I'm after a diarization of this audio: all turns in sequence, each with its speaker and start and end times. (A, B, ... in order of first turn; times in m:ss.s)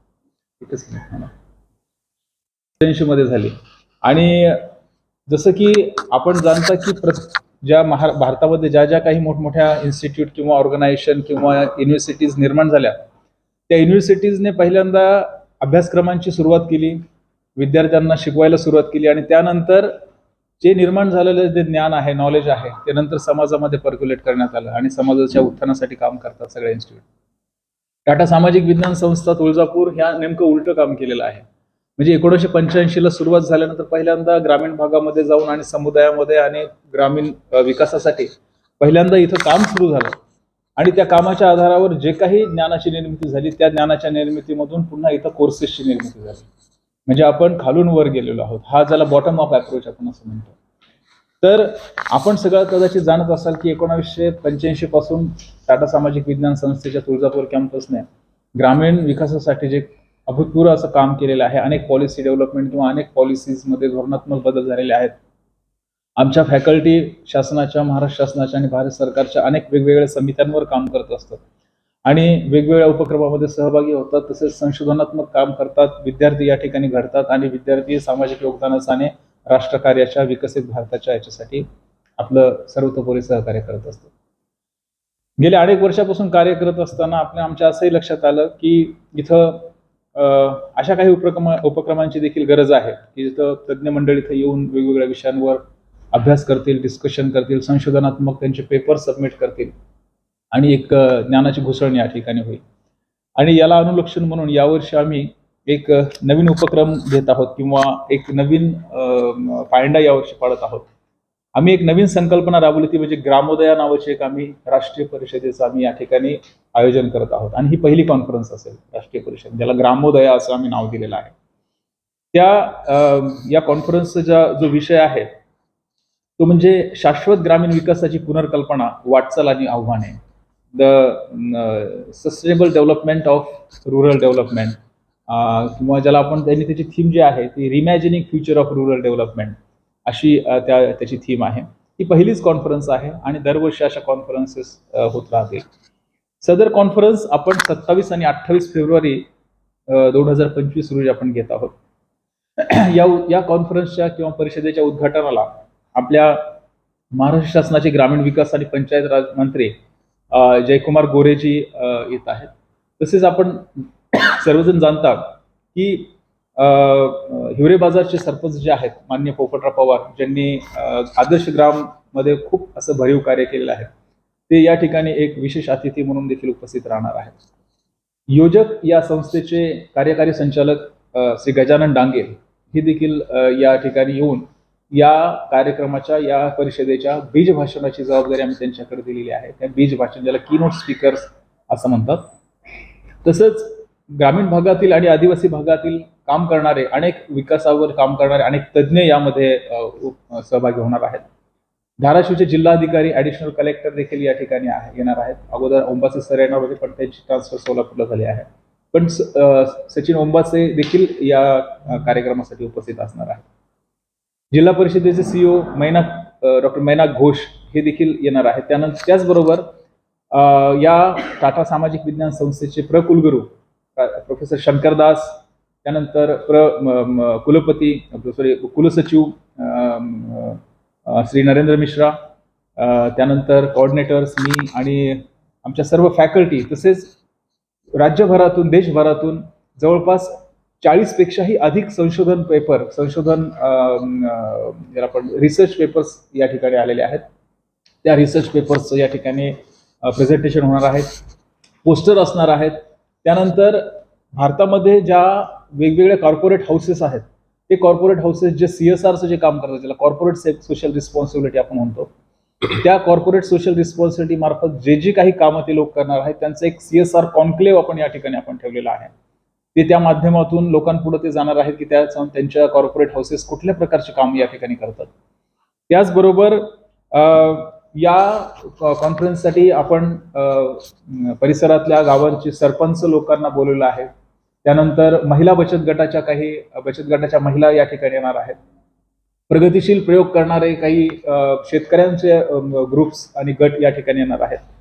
0:00.6-0:01.3 A
0:02.8-0:04.7 A
0:05.3-0:13.0 A
0:13.7-0:17.0 A
0:17.6-0:19.9 A
0:20.6-0:27.0 A
0:28.1-0:31.5 A
0:32.0-0:40.2 A
0:40.8-0:46.5 A
0:47.1-0:50.6 A
0:51.4-1:05.2 A
1:06.2-1:11.4 A
1:12.0-1:21.7 A
1:22.2-1:24.1 A
1:25.4-1:35.6 A
1:36.1-1:39.7 A
1:40.5-1:42.6 A
1:43.4-1:50.9 A
1:51.5-2:01.3 A
2:02.3-2:05.3 A
2:06.4-2:10.2 A
2:10.7-2:14.8 A
2:15.3-2:25.7 A
2:26.4-2:29.3 A
2:29.9-2:31.8 A
2:32.6-2:36.6 A
2:37.1-2:39.7 A
2:40.3-2:53.9 A
2:54.5-2:57.4 A
2:58.3-3:12.3 A
3:13.2-3:21.2 A
3:22.0-3:33.4 A
3:34.5-3:39.7 A
3:40.3-3:52.2 A
3:52.8-3:57.2 A
3:58.0-4:07.2 A
4:08.0-4:11.2 A
4:11.8-4:22.1 A
4:22.7-4:29.1 A
4:29.8-4:35.1 A
4:35.9-4:44.1 A
4:44.6-4:48.6 A
4:49.5-4:54.6 A